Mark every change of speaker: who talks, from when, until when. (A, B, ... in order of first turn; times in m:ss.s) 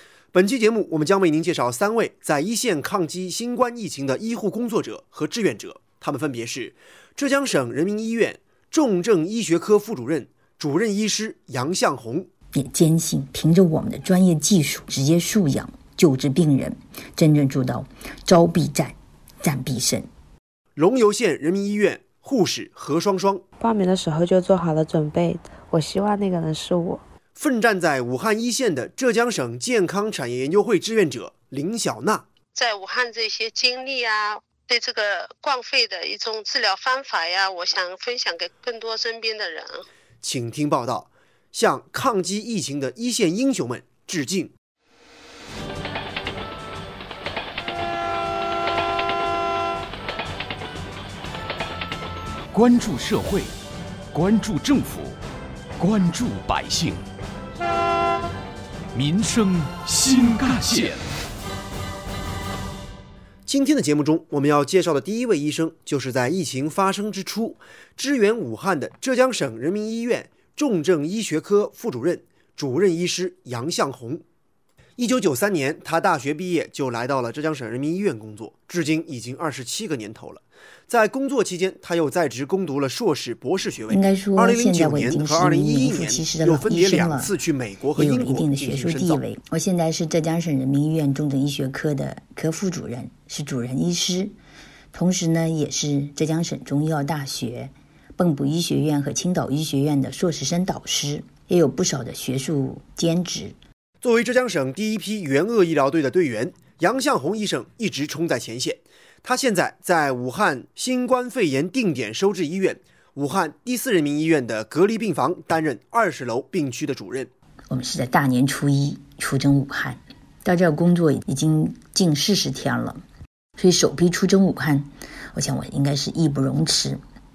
0:00.3-0:12.3 A
0:12.5-0:20.1 B
0:20.8-0:23.4 A
0:23.6-0:27.0 C
0:27.4-0:32.2 A
0:32.5-0:39.8 D
0:40.2-0:44.5 A
0:52.5-0:53.5 E
0:54.1-0:55.2 E
0:55.8-0:57.0 E
0:58.9-1:01.0 E
1:03.5-1:14.2 A
1:15.0-1:29.2 A
1:23.9-1:27.3 B
1:28.0-1:34.3 B
1:34.9-1:43.6 B
1:44.0-1:57.3 A
1:57.7-2:03.0 B
2:03.6-2:07.0 B